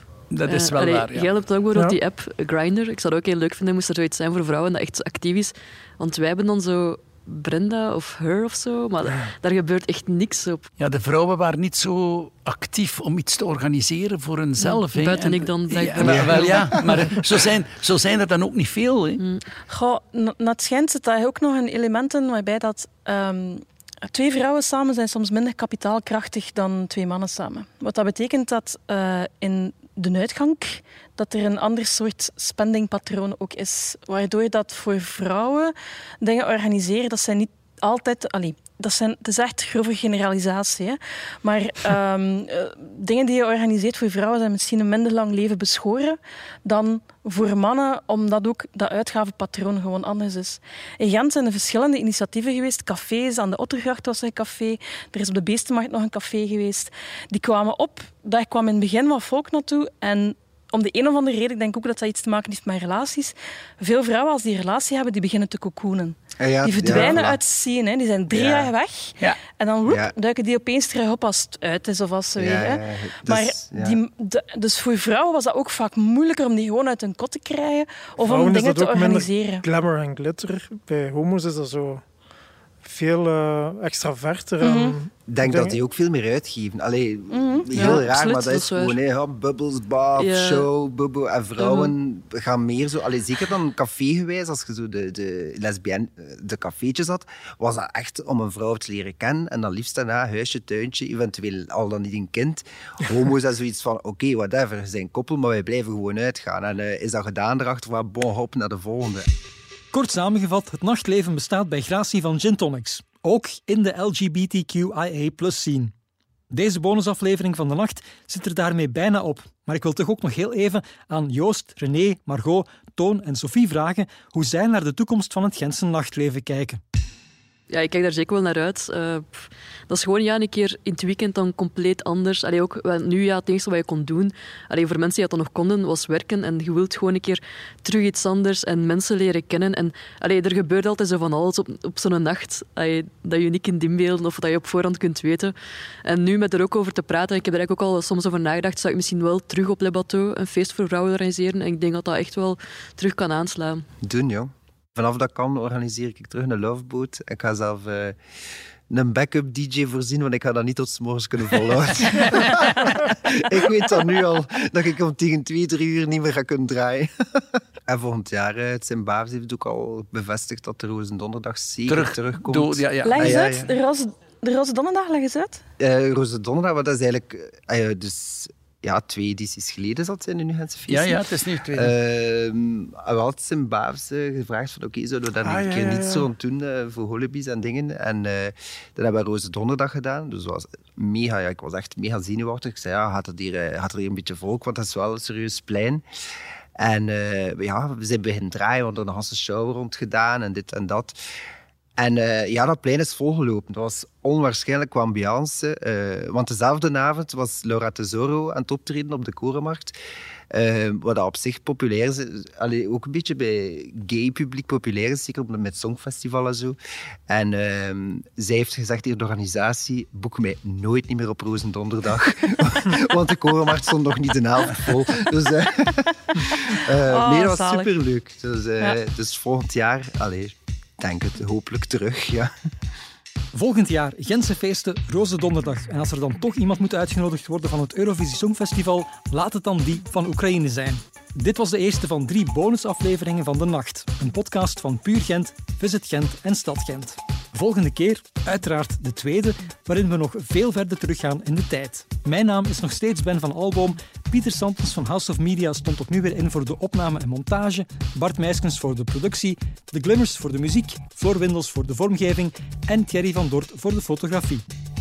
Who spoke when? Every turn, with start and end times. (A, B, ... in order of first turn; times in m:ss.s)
0:00.3-0:01.3 A
0:00.5-0:10.7 B
0:10.8-0:19.2 A
0:14.6-0:17.2 B
0:19.2-0:19.5 B
0:19.7-1:19.6 C
1:06.4-1:07.4 D
1:08.3-1:08.7 D
1:09.9-1:10.1 D
1:12.4-1:14.0 D
1:18.2-1:22.0 E
1:22.8-1:25.8 E
1:24.6-1:25.0 C
1:25.3-1:49.3 D
1:27.3-1:28.0 C
1:27.7-1:29.0 B
1:30.2-1:30.7 B
1:31.6-1:31.9 B
1:49.9-1:55.9 F
1:56.5-2:06.8 F
2:07.7-2:25.5 B
2:26.1-2:33.9 B
2:34.0-2:38.2 D
2:38.9-2:53.7 D
2:51.9-2:53.4 A
2:53.0-2:55.6 C
2:55.8-3:01.2 D
3:00.9-3:01.9 A
3:01.7-3:16.0 D
3:05.4-3:06.3 E
3:16.8-3:21.2 D
3:22.0-3:30.0 D
3:30.5-3:36.8 D
3:37.3-3:52.5 D
3:46.8-3:47.9 C
3:53.5-4:24.7 F